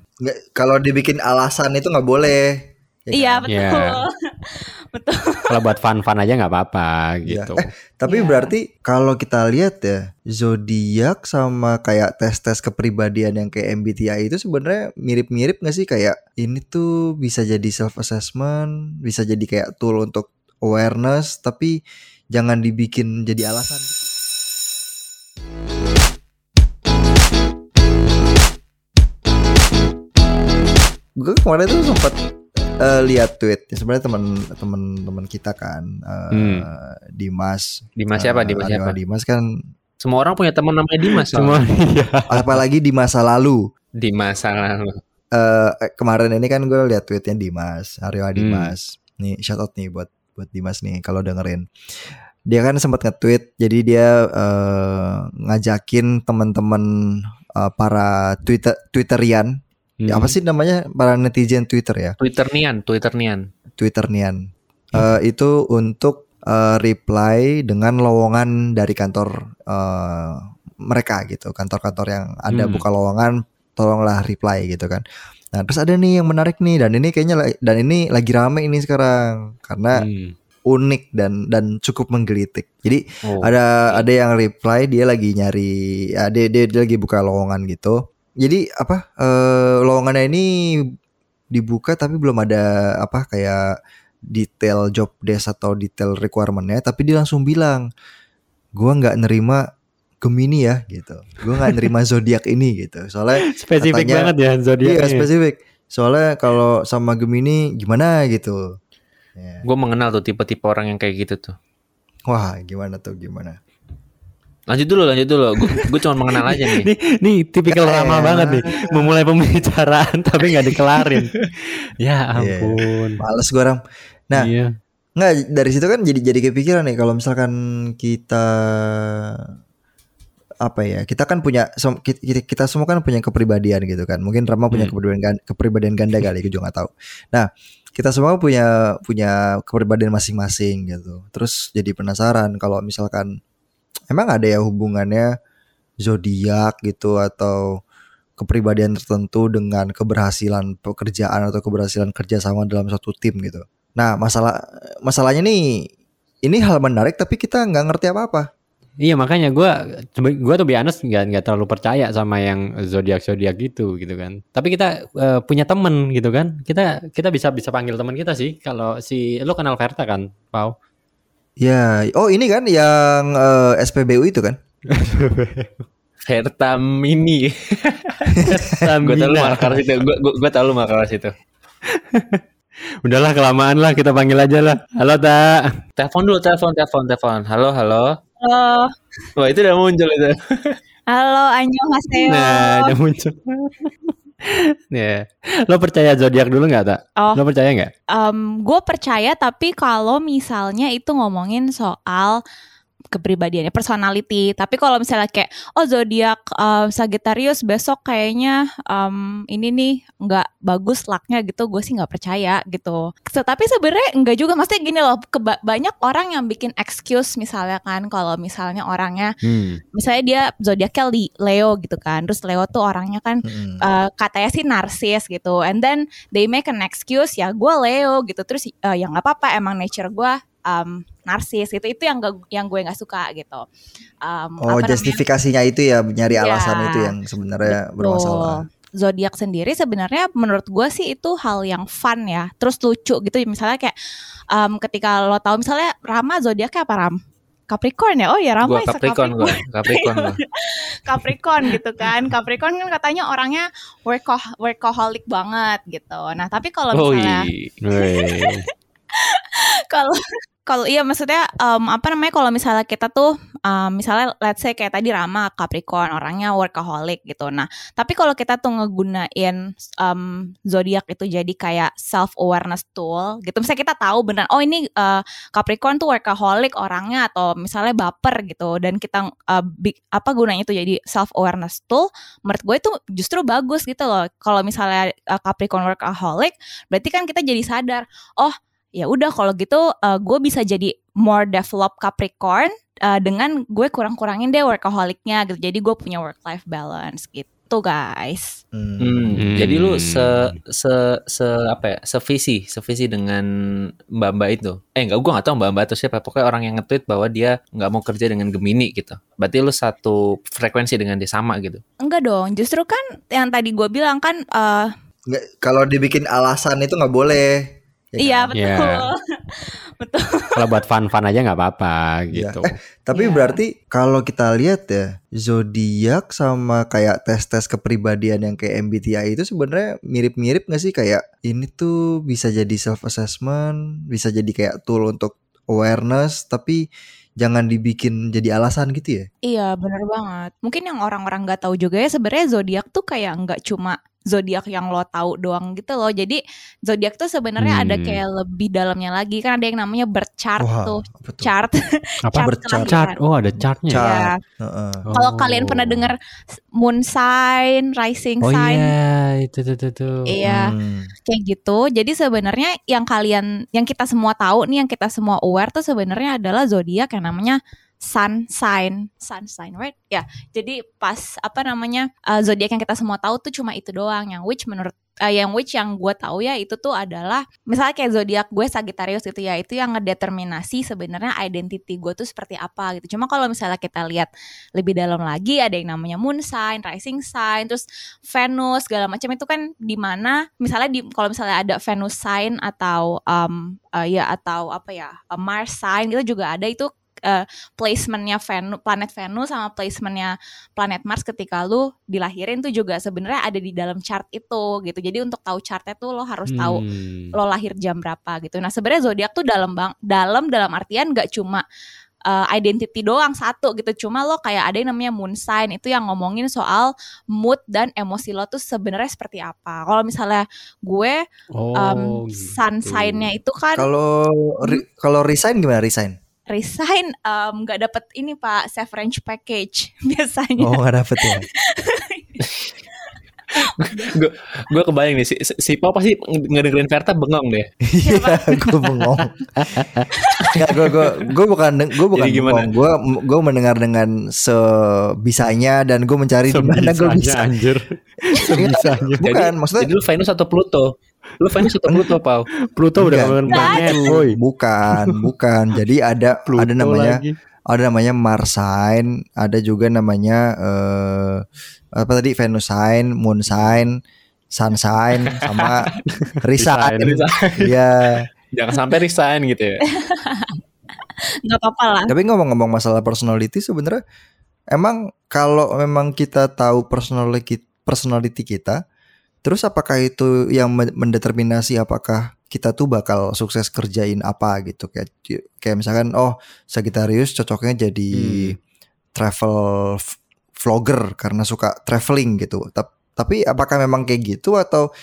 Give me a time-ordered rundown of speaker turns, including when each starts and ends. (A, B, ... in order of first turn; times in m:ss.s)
0:00.2-0:03.4 A
0:03.1-0:05.7 B
0:03.5-0:04.0 C
0:05.5-0:07.6 C
0:07.2-0:21.8 A
0:08.1-0:08.5 B
0:22.3-0:24.1 A
0:31.2-0:32.2 A
0:32.8-0:39.5 A
0:36.3-0:36.6 C
0:38.0-0:39.0 D
0:40.0-0:41.6 D
0:41.1-0:42.6 C
0:42.3-0:43.6 A
0:44.0-0:45.0 D
0:45.3-0:51.6 A
0:48.4-0:48.7 C
0:52.5-0:59.5 A
1:00.0-1:00.4 C
1:00.1-1:02.2 A
1:02.2-1:03.4 D
1:03.8-1:04.4 A
1:04.9-1:15.0 A
1:12.5-1:12.8 C
1:15.5-1:20.0 A
1:20.0-1:20.3 C
1:20.7-1:30.5 A
1:23.3-1:23.9 D
1:31.5-1:33.6 A
1:34.3-1:37.8 A
1:38.8-1:39.6 A
1:40.2-1:44.3 A
1:43.5-1:45.2 C
1:44.8-1:48.6 A
1:49.4-1:49.6 A
1:49.6-1:51.6 D
1:52.3-1:53.6 A
1:54.7-1:56.9 D
1:56.5-2:01.3 C
1:57.7-1:59.2 A
2:02.0-2:03.2 C
2:02.3-2:04.5 A
2:04.3-2:04.7 C
2:05.2-2:09.5 A
2:10.6-2:23.3 A
2:24.1-2:25.3 A
2:26.0-2:27.7 A
2:28.4-2:35.6 A
2:36.4-2:38.5 A
2:39.0-2:50.7 C
2:51.6-2:54.6 A
2:54.9-2:55.7 C
2:56.3-2:58.5 D
2:58.4-2:58.8 A
2:58.4-2:59.8 C
2:59.0-3:01.3 D
3:02.0-3:02.4 C
3:03.0-3:05.6 C
3:06.0-3:08.2 D
3:08.4-3:08.9 B
3:09.4-3:10.8 D
3:11.1-3:12.9 B
3:12.2-3:13.9 C
3:14.4-3:17.9 C
3:18.1-3:22.4 B
3:23.1-3:39.3 B
3:39.4-3:39.8 C
3:39.9-3:53.6 B
3:43.4-3:43.8 A
3:54.2-3:55.2 B
3:54.6-3:58.6 A
3:56.3-3:57.1 B
3:57.6-4:03.9 B
4:04.5-4:07.2 B
4:07.7-4:58.6 B
4:08.6-4:10.4 D
4:16.9-4:17.7 D
4:17.8-4:18.6 C
4:58.7-4:59.3 A
4:59.0-5:03.5 D
4:59.4-5:00.5 C
5:04.2-5:11.8 D
5:12.0-5:14.9 B
5:15.3-5:18.5 A
5:18.2-5:20.7 B
5:18.5-5:19.0 C
5:20.5-5:22.7 C
5:22.3-5:36.8 A
5:23.1-5:23.6 B
5:37.4-5:39.3 A
5:39.5-5:53.2 B
5:47.6-5:48.2 C
5:50.6-5:51.5 A
5:52.2-5:54.1 C
5:52.4-5:52.9 A
5:53.9-5:55.0 A
5:53.9-5:54.4 B
5:55.1-5:56.1 C
5:55.1-5:56.2 B
5:56.8-5:58.9 B
5:58.4-6:00.3 C
6:00.3-6:00.7 B
6:00.4-6:01.1 A
6:01.3-6:46.8 B
6:46.4-6:47.3 C
6:47.3-6:51.6 B
6:52.3-7:01.2 B
7:01.6-7:03.3 C
7:01.7-7:03.9 B
7:03.8-7:06.2 A
7:06.5-7:12.4 B
7:10.6-7:11.5 A
7:12.4-7:12.7 D
7:13.0-7:14.1 B
7:13.5-7:17.7 D
7:17.9-7:19.4 A
7:18.0-7:19.0 B
7:19.6-7:20.1 C
7:20.2-7:20.5 B
7:20.5-7:27.6 A
7:22.1-7:22.7 D
7:26.5-7:29.2 C
7:28.4-7:29.9 A
7:29.2-7:32.5 D
7:32.7-7:34.4 C
7:33.0-7:41.4 A
7:33.5-7:34.1 B
7:34.9-7:35.2 C
7:36.5-7:37.3 C
7:42.0-7:44.0 A
7:44.5-7:48.2 A
7:46.6-7:47.2 C
7:47.0-7:47.6 D
7:48.5-7:49.8 D
7:49.9-7:52.1 B
7:52.1-7:54.0 A
7:54.7-7:58.8 A
7:59.4-8:08.6 A
8:08.1-8:08.6 C
8:09.2-8:14.9 A